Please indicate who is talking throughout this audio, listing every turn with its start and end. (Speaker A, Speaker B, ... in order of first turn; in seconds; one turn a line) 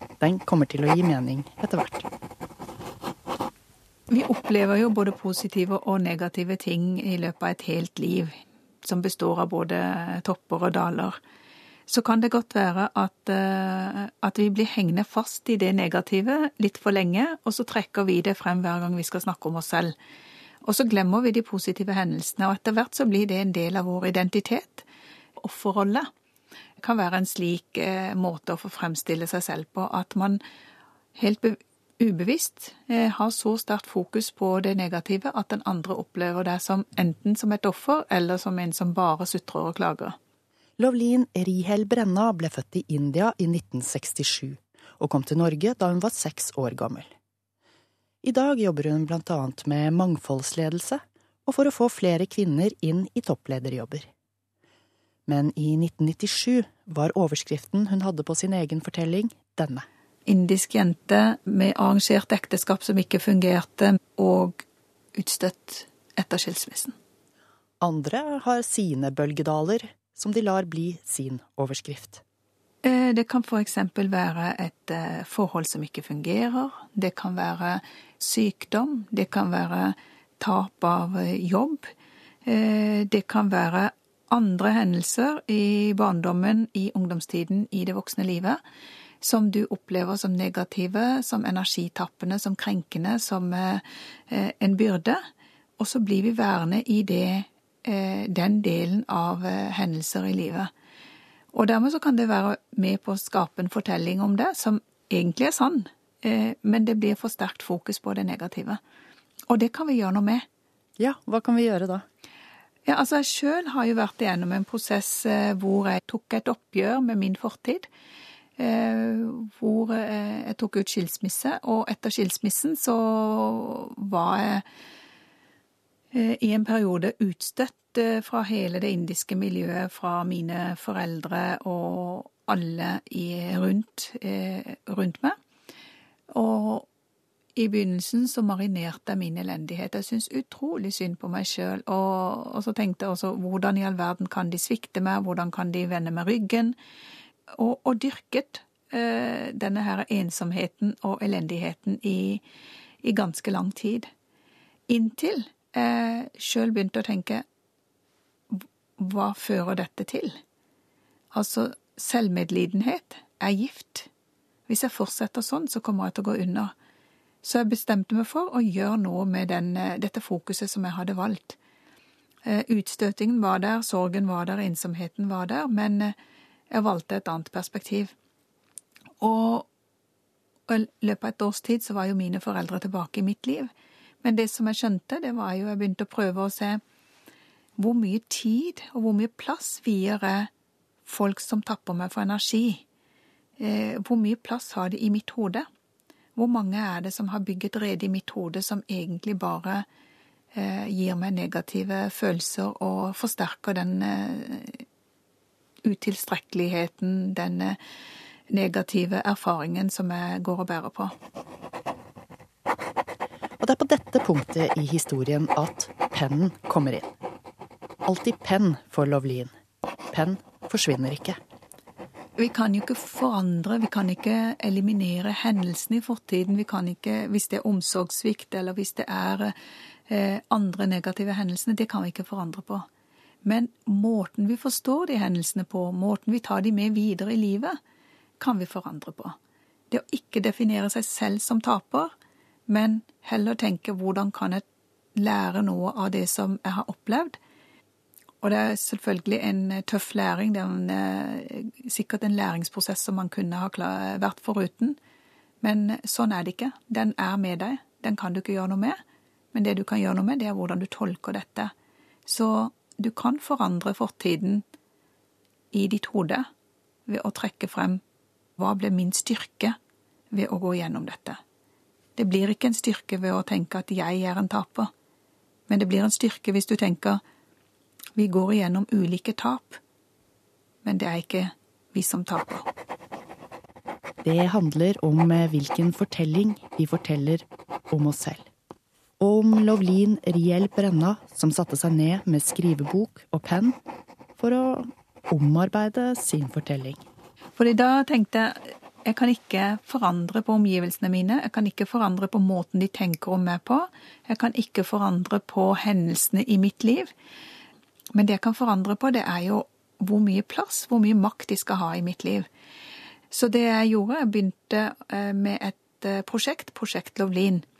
Speaker A: 0.2-2.0
Speaker B: 4.1-11.2
Speaker B: 11.9-19.9
Speaker B: 20.6-24.9
Speaker B: 25.4-26.1
Speaker B: 26.8-30.4
Speaker B: 31.1-40.2
Speaker A: 40.8-47.1
Speaker A: 48.2-54.1
Speaker A: 55.3-59.8
Speaker B: 60.3-64.6
Speaker B: 65.2-67.0
Speaker A: 67.8-72.2
Speaker B: 72.8-81.9
Speaker B: 82.5-88.6
Speaker B: 89.2-95.2
Speaker B: 95.8-100.7
Speaker B: 101.5-108.8
Speaker B: 109.5-110.5
Speaker A: 111.0-112.0
Speaker B: 112.8-117.9
Speaker B: 118.6-124.6
Speaker B: 126.1-135.4
Speaker B: 136.3-136.9
Speaker B: 137.6-146.8
Speaker B: 147.5-152.4
Speaker B: 153.0-154.1
Speaker B: 154.9-157.4
Speaker B: 158.5-160.4
Speaker B: 161.3-164.1
Speaker B: 164.7-166.7
Speaker B: 167.4-171.6
Speaker B: 172.4-176.1
Speaker B: 176.7-178.1
Speaker B: 179.2-179.7
Speaker B: 180.7-183.7
Speaker B: 184.2-186.8
Speaker B: 187.8-190.5
Speaker B: 191.1-192.8
Speaker B: 193.6-195.7
Speaker B: 196.3-199.8
Speaker B: 200.5-204.8
Speaker B: 205.8-207.8
Speaker B: 208.5-211.1
Speaker A: 213.6-217.1
Speaker A: 218.1-219.5
Speaker A: 220.1-221.4
Speaker B: 222.4-229.5
Speaker B: 230.1-232.9
Speaker B: 233.4-237.8
Speaker B: 238.4-239.3
Speaker B: 239.9-242.1
Speaker B: 242.7-244.6
Speaker B: 245.2-247.4
Speaker B: 248.4-255.0
Speaker B: 255.6-259.0
Speaker B: 259.5-261.7
Speaker B: 262.3-264.6
Speaker B: 265.7-266.5
Speaker B: 267.1-268.0
Speaker B: 268.6-269.8
Speaker B: 270.3-271.4
Speaker B: 272.2-274.9
Speaker B: 275.7-277.2
Speaker B: 278.1-279.8
Speaker B: 280.8-282.7
Speaker A: 284.2-288.5
Speaker A: 289.2-293.8
Speaker A: 294.4-297.0
Speaker B: 297.6-307.1
Speaker B: 308.1-312.5
Speaker B: 313.3-317.6